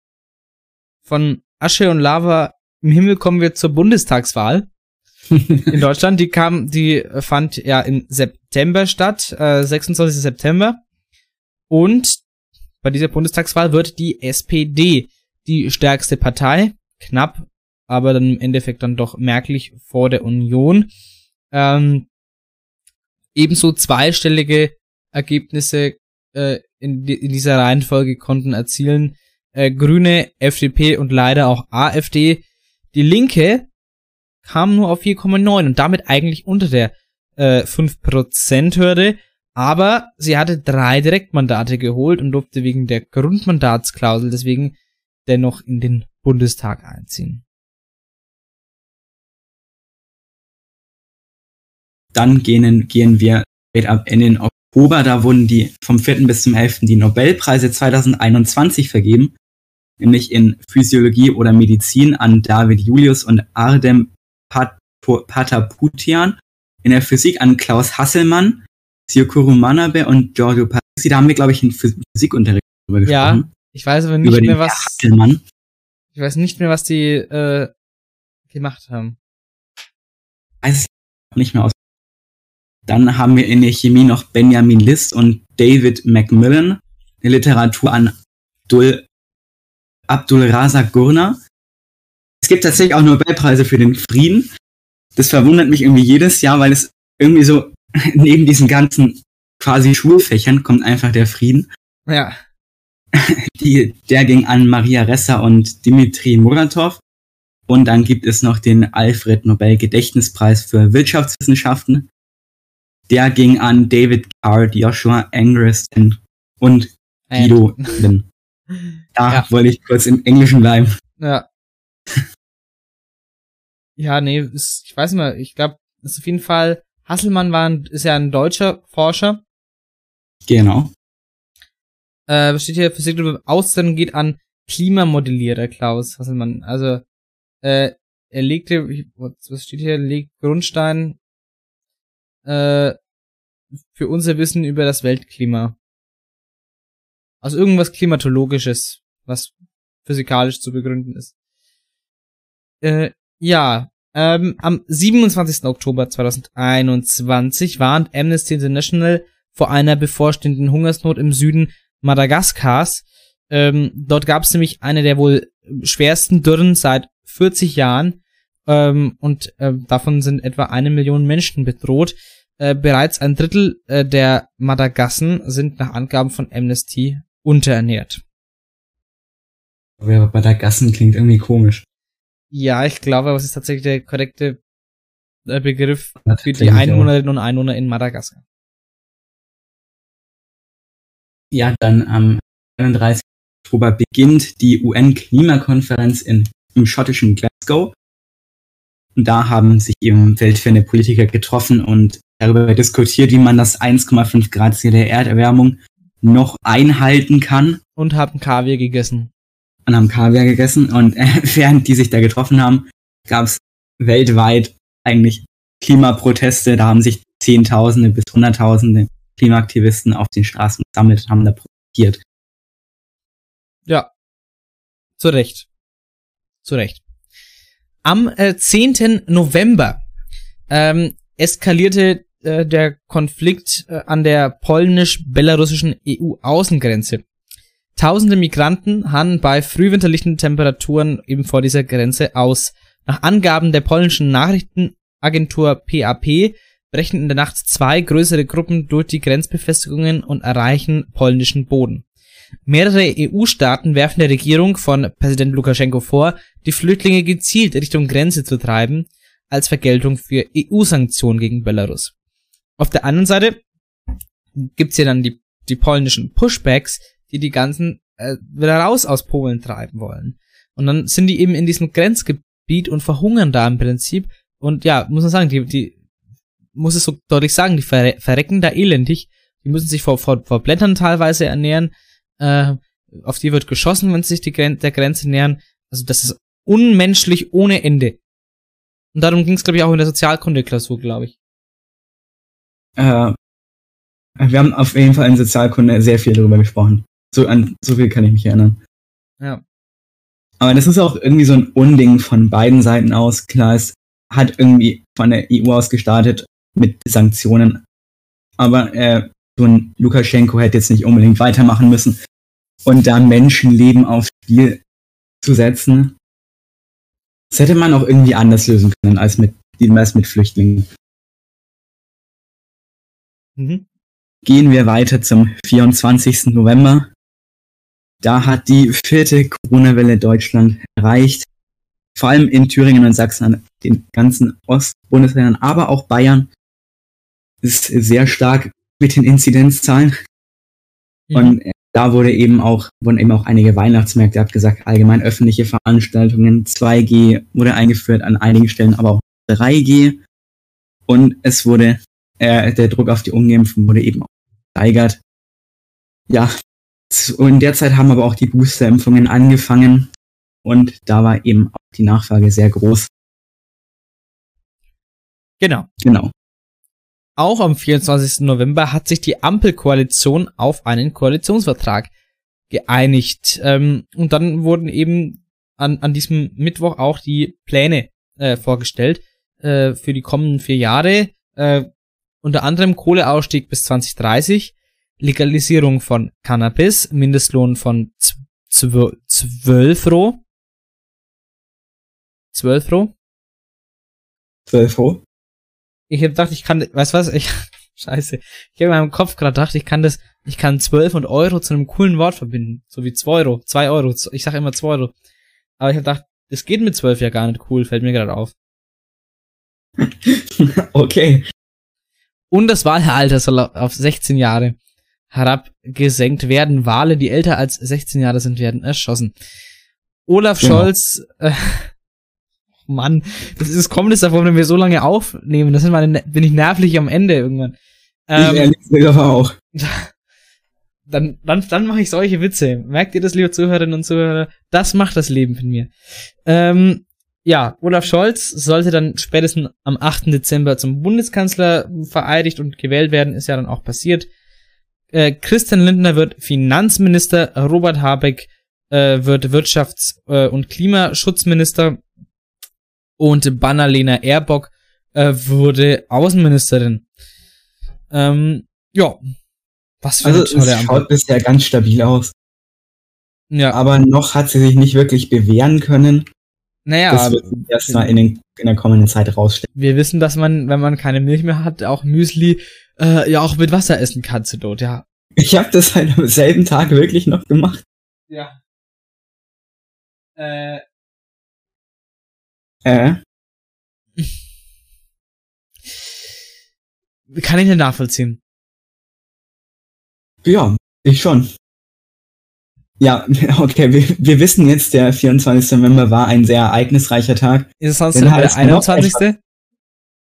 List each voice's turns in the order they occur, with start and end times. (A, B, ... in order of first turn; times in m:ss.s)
0:01.1-0:04.7 A
0:05.3-0:05.7 B
0:05.7-0:10.8 A
0:11.7-0:12.2 A
0:12.8-0:20.9 A
0:21.5-0:22.1 A
0:23.4-0:32.4 A
0:32.9-0:33.7 A
0:34.4-0:44.7 A
0:45.3-0:47.4 A
0:52.1-0:59.3 B
1:00.0-1:13.5 B
1:13.1-1:15.0 A
1:14.2-1:15.4 B
1:16.1-1:17.7 A
1:18.5-1:19.2 A
1:20.6-1:21.8 B
1:22.9-1:28.2 B
1:28.7-1:29.0 B
1:30.1-1:31.4 B
1:32.4-1:34.5 B
1:35.2-1:41.7 B
1:42.1-1:42.4 A
1:43.1-1:47.0 B
1:47.7-1:52.1 B
1:53.1-1:58.3 B
1:57.3-1:58.0 A
1:59.2-2:00.9 B
2:01.2-2:01.4 A
2:04.0-2:09.4 A
2:10.5-2:10.9 B
2:12.3-2:17.0 A
2:17.6-2:21.2 A
2:22.5-2:23.0 A
2:23.9-2:25.8 A
2:27.4-2:29.5 A
2:30.0-2:31.3 A
2:32.8-2:58.2 A
3:00.0-3:01.8 B
3:02.5-3:04.6 A
3:05.5-3:08.4 A
3:06.2-3:07.1 B
3:11.5-3:17.9 B
3:19.2-3:27.8 B
3:28.0-3:29.3 A
3:29.9-3:42.2 B
3:45.2-3:45.7 A
3:46.6-3:47.0 A
3:48.0-3:50.0 A
3:50.7-3:57.2 A
3:58.0-4:12.0 A
4:12.7-4:22.1 A
4:22.8-4:23.6 A
4:24.6-4:36.0 A
4:36.8-4:48.2 A
4:49.2-4:51.3 A
4:53.0-4:53.4 B
4:54.4-4:58.8 B
5:00.6-5:07.8 B
5:08.6-5:12.2 B
5:12.8-5:14.8 B
5:15.4-5:16.1 B
5:17.5-5:20.9 B
5:23.6-5:23.8 A
5:24.4-5:27.1 B
5:28.2-5:31.5 B
5:32.2-5:36.5 B
5:37.6-5:40.1 B
5:41.3-5:41.6 A
5:41.4-5:50.2 B
5:51.1-5:55.2 B
5:57.1-6:00.1 B
6:00.6-6:03.1 B
6:05.6-6:05.9 A
6:06.0-6:06.3 B
6:07.4-6:12.1 A
6:12.7-6:21.9 A
6:22.4-6:30.4 A
6:32.5-6:33.1 A
6:34.7-6:35.2 B
6:36.1-6:45.1 A
6:45.8-6:48.5 A
6:50.0-6:51.4 B
6:52.5-6:54.8 A
6:55.3-6:59.3 A
7:00.3-7:01.9 A
7:00.6-7:00.9 B
7:02.9-7:07.8 A
7:08.3-7:08.7 A
7:08.4-7:09.5 B
7:09.8-7:10.1 A
7:11.1-7:15.9 A
7:16.4-7:24.3 A
7:25.1-7:32.0 A
7:33.2-7:37.0 A
7:38.1-7:39.2 A
7:40.0-7:41.1 A
7:40.2-7:42.3 B
7:43.5-7:43.8 A
7:43.7-7:46.3 B
7:46.9-7:48.1 A
7:47.1-7:49.6 B
7:49.8-7:55.0 A
7:55.4-7:57.8 B
7:58.3-7:58.6 A
8:00.4-8:00.8 A
8:02.8-8:03.2 B
8:07.3-8:08.4 A
8:10.4-8:11.5 B
8:13.0-8:19.2 B
8:17.8-8:19.4 A